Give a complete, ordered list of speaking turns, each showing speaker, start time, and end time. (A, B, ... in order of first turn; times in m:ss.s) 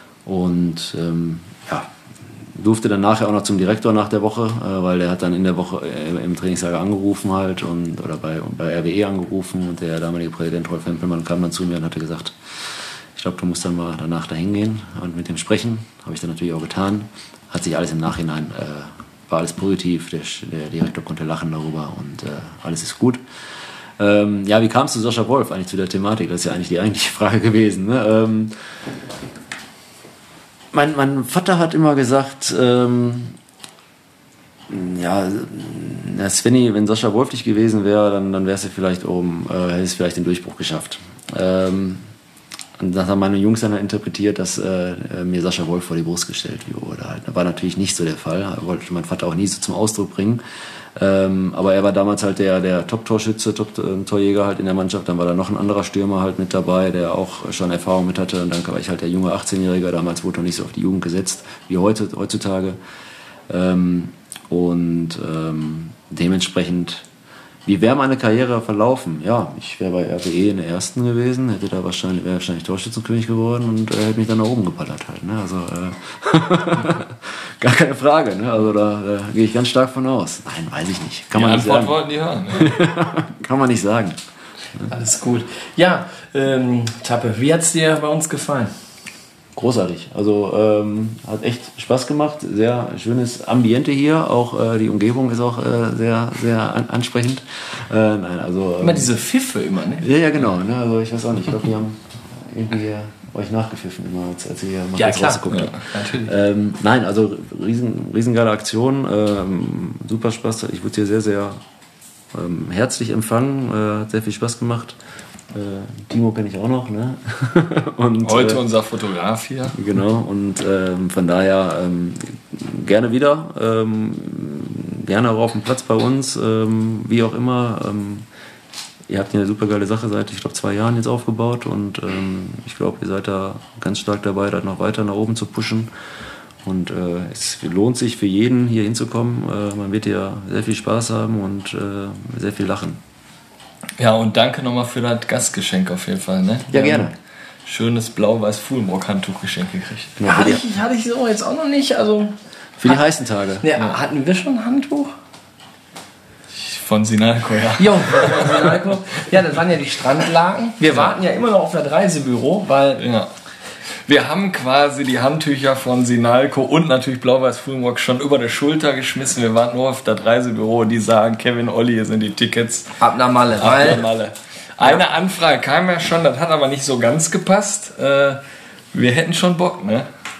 0:00.2-0:23.2 A
0:24.0-0:28.5 A
0:30.7-0:33.4 A
0:34.7-0:42.0 A
0:42.8-0:50.4 A
0:50.9-1:02.8 A
1:03.5-1:07.0 A
1:07.6-1:22.0 A
1:21.3-1:22.8 B
1:22.5-1:24.2 A
1:24.9-1:28.7 C
1:29.5-1:39.1 A
1:38.8-1:40.0 C
1:40.0-1:51.6 A
1:45.0-1:46.3 C
1:52.3-1:55.0 A
1:55.5-1:58.6 A
1:58.2-1:59.8 B
1:59.7-2:08.3 A
2:09.1-2:15.9 A
2:16.6-2:23.0 A
2:24.0-2:27.1 B
2:26.7-2:27.1 A
2:27.6-2:30.2 B
2:30.2-2:30.6 A
2:30.2-2:32.3 C
2:32.8-2:33.9 A
2:33.6-2:35.1 C
2:36.5-2:38.8 B
2:37.8-2:43.0 C
2:40.9-2:41.2 B
2:43.0-2:43.3 B
2:44.1-2:53.0 B
2:53.0-2:54.0 C
2:53.6-2:58.4 B
2:58.9-3:00.1 B